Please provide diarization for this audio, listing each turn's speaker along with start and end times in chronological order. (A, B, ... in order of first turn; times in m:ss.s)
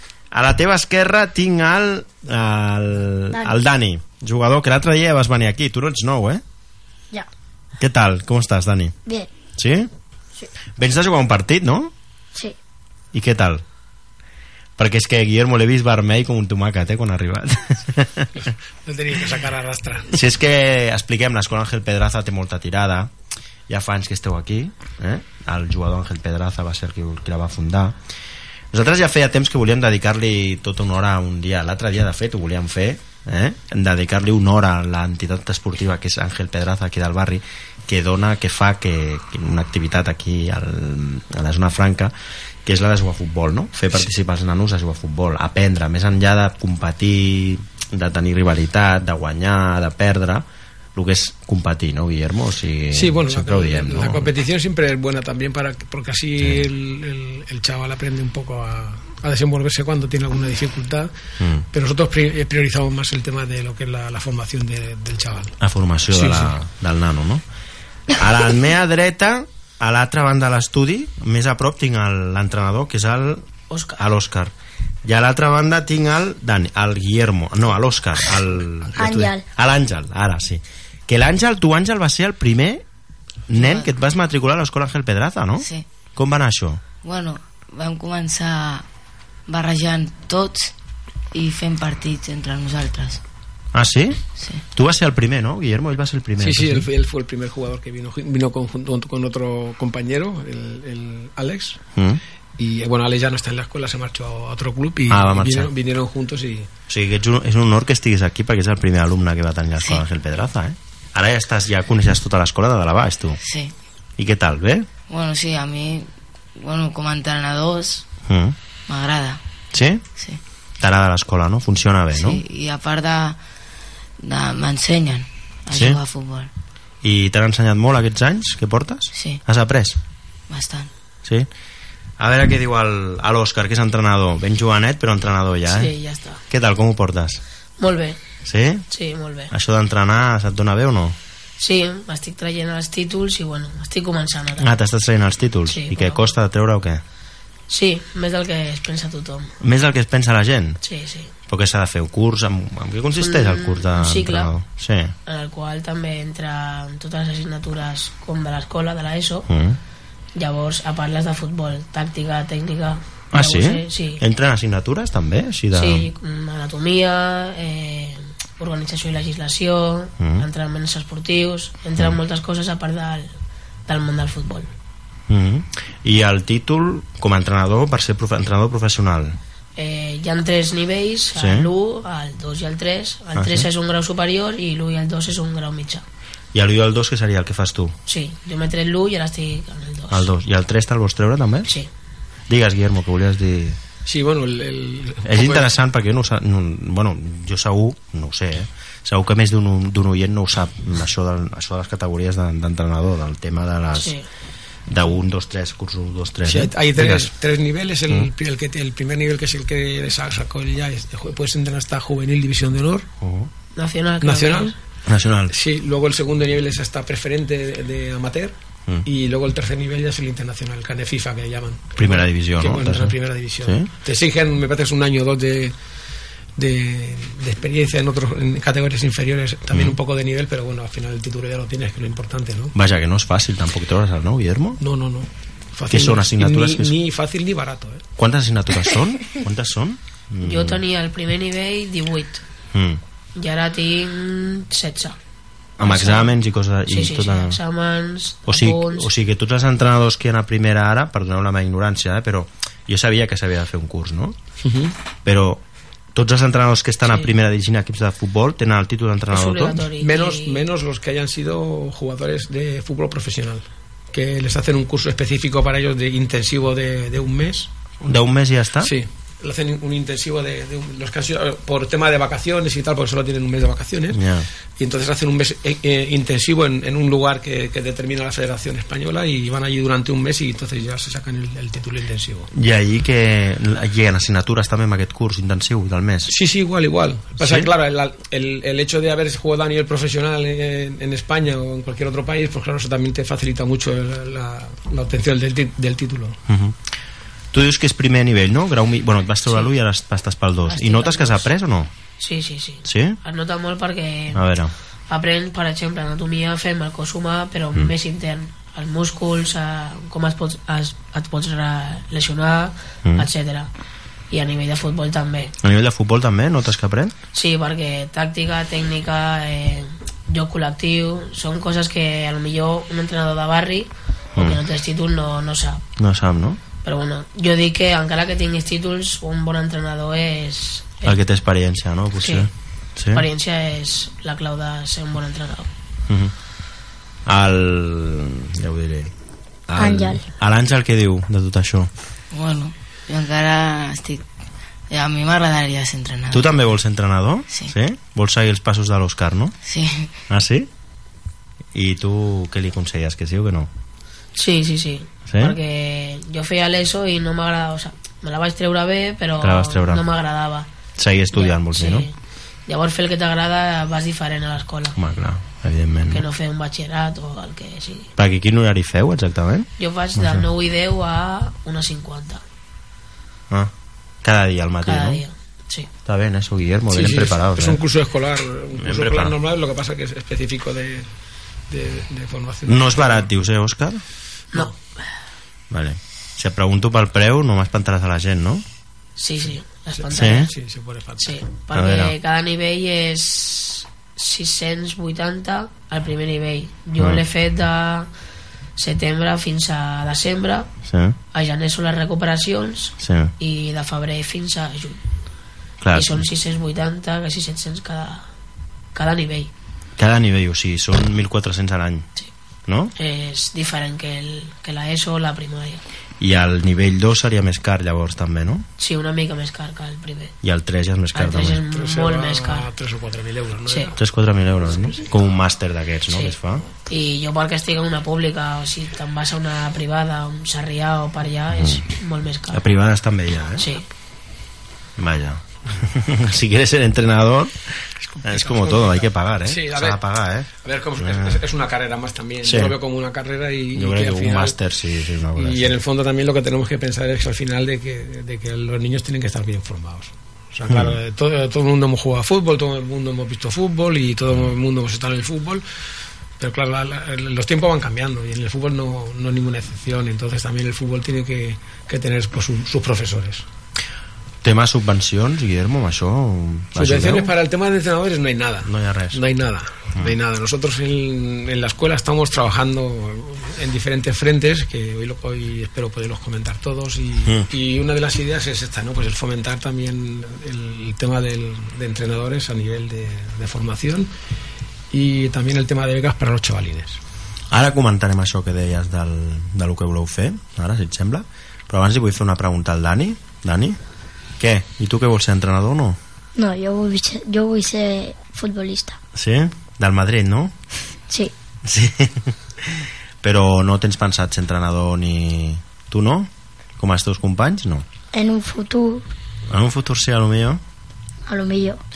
0:00.3-0:06.4 A
0:07.8-0:09.0 A
0:09.6-0:09.9 A
0:10.8-0:11.9 A
0:13.1-0:13.6 A
0:14.8-0:18.3 A
0:18.3-0:20.1 B
0:20.1-0:23.1 A
0:23.7-0:28.0 A
0:28.7-0:42.1 A
0:42.6-0:54.3 A
0:52.9-1:01.1 B
0:56.4-0:56.6 A
1:01.4-1:01.6 A
1:01.7-1:05.5 B
1:05.6-1:07.4 A
1:06.1-1:06.5 B
1:08.1-1:13.4 A
1:13.7-1:14.0 C
1:14.0-1:14.5 A
1:15.0-1:22.8 A
1:19.0-1:19.4 D
1:23.5-1:26.8 A
1:23.5-1:23.9 E
1:25.6-1:25.8 E
1:27.0-1:28.8 E
1:29.5-1:30.7 E
1:31.3-1:33.2 E
1:33.7-1:34.2 A
1:34.4-1:34.6 E
1:34.7-1:36.9 A
1:36.4-1:41.8 B
1:41.9-1:42.2 A
1:42.6-1:46.7 B
1:45.1-1:45.7 A
1:46.9-1:53.4 A
1:53.4-1:53.7 E
1:54.2-1:54.9 A
1:55.1-1:58.1 E
1:58.3-1:58.6 A
1:58.9-1:59.4 E
1:59.7-2:00.0 A
2:00.8-2:02.4 A
2:02.1-2:03.4 E
2:04.2-2:06.5 E
2:05.7-2:06.0 A
2:07.0-2:10.0 A
2:09.1-2:09.4 E
2:10.5-2:10.9 E
2:12.2-2:15.9 A
2:15.7-2:16.4 C
2:16.5-2:17.4 A
2:17.8-2:18.2 C
2:18.4-2:18.8 A
2:18.9-2:19.5 C
2:19.5-2:21.2 A
2:21.6-2:24.7 C
2:24.6-2:27.0 A
2:25.7-2:26.3 C
2:27.7-2:29.5 C
2:29.6-2:30.8 A
2:30.8-2:31.3 C
2:31.5-2:35.1 A
2:33.2-2:34.5 C
2:35.2-2:39.5 C
2:39.5-2:39.8 A
2:40.4-2:44.2 C
2:43.3-2:46.1 A
2:45.7-2:53.3 C
2:50.2-2:50.4 A
2:53.9-2:54.7 C
2:55.3-2:59.4 A
2:59.8-3:06.0 C
3:01.3-3:01.7 A
3:03.3-3:03.7 A
3:06.5-3:07.9 A
3:08.1-3:10.3 C
3:10.1-3:11.7 A
3:12.5-3:13.8 A
3:14.0-3:15.7 B
3:15.2-3:24.1 A
3:23.9-3:24.2 C
3:24.9-3:27.3 A
3:26.4-3:33.1 B
3:33.2-3:33.5 A
3:33.8-3:34.7 C
3:34.2-3:34.7 B
3:35.0-3:35.5 A
3:35.5-3:38.5 B
3:39.0-3:45.7 B
3:42.0-3:43.9 A
3:46.6-3:52.7 B
3:49.7-3:50.0 A
3:52.7-3:54.8 A
3:54.8-3:58.0 B
3:55.9-3:56.9 A
3:58.2-4:00.8 A
4:00.4-4:02.4 C
4:02.7-4:03.0 A
4:03.4-4:05.2 C
4:05.8-4:07.6 A
4:05.8-4:06.3 C
4:06.9-4:09.1 C
4:08.5-4:14.4 A
4:14.6-4:14.9 B
4:15.2-4:15.6 A
4:16.1-4:19.9 A
4:17.0-4:17.3 C
4:19.3-4:20.6 C
4:19.9-4:28.1 B
4:28.0-4:29.0 A
4:28.8-4:34.2 B
4:34.1-4:34.5 A
4:34.8-4:42.5 B
4:42.5-4:46.3 A
4:46.3-4:56.4 B
4:47.4-4:47.7 A
4:56.5-4:56.8 A
4:57.5-5:01.9 A
5:00.7-5:01.5 C
5:02.2-5:04.5 C
5:02.8-5:03.2 A
5:04.3-5:04.7 A
5:05.1-5:13.7 C
5:14.3-5:15.5 C
5:15.6-5:17.1 A
5:17.3-5:25.8 C
5:24.3-5:24.6 A
5:26.0-5:26.6 A
5:26.8-5:31.2 C
5:31.0-5:33.2 A
5:32.2-5:32.5 C
5:33.1-5:35.7 C
5:36.1-5:36.3 A
5:37.2-5:39.1 A
5:39.7-5:41.9 A
5:39.8-5:40.2 D
5:42.3-5:44.2 E
5:44.9-5:46.5 E
5:46.3-5:49.5 A
5:49.6-5:50.1 E
5:50.3-5:50.7 A
5:51.7-5:53.7 A
5:54.4-6:00.7 C
5:55.3-5:55.6 A
5:59.4-6:00.1 A
6:01.0-6:02.1 A
6:01.3-6:02.1 C
6:02.7-6:05.0 C
6:05.0-6:06.2 A
6:06.1-6:08.1 C
6:08.2-6:10.5 A
6:09.8-6:12.4 C
6:14.2-6:15.2 A
6:14.8-6:15.9 C
6:16.0-6:17.8 A
6:16.9-6:21.1 B
6:18.8-6:19.4 A
6:21.7-6:23.3 B
6:22.6-6:24.0 A
6:24.5-6:25.0 C
6:25.7-6:28.6 A
6:29.2-6:30.5 C
6:30.0-6:31.4 B
6:30.1-6:30.5 A
6:31.2-6:38.1 C
6:31.7-6:32.1 A
6:38.8-6:40.7 C
6:40.8-6:41.2 A
6:41.3-6:45.0 C
6:43.0-6:43.3 A
6:45.8-6:46.2 A
6:45.9-6:48.3 C
6:48.9-6:49.5 C
6:50.0-6:52.1 A
6:52.7-6:52.9 A
6:53.0-6:55.8 C
6:56.2-6:58.6 A
6:58.8-7:00.3 C
7:00.4-7:01.6 A
7:01.1-7:02.7 C
7:01.7-7:04.0 B
7:04.0-7:06.6 A
7:06.1-7:06.3 C
7:06.9-7:12.6 C
7:11.5-7:11.8 A
7:12.5-7:13.7 A
7:13.6-7:13.8 C
7:15.0-7:17.6 A
7:18.0-7:20.0 B
7:18.2-7:21.4 A
7:20.6-7:24.6 B
7:22.4-7:22.8 A
7:23.7-7:25.8 A
7:25.4-7:35.6 B
7:30.7-7:31.0 A
7:36.4-7:43.4 B
7:44.4-7:47.3 A
7:46.7-8:04.1 B
7:48.6-7:49.2 A
8:04.9-8:07.0 B
8:07.5-8:13.8 A
8:14.4-8:16.0 A
8:16.4-8:19.0 D
8:19.1-8:20.5 A
8:21.6-8:27.8 A
8:28.1-8:29.0 D
8:29.5-8:30.6 A
8:31.3-8:31.8 D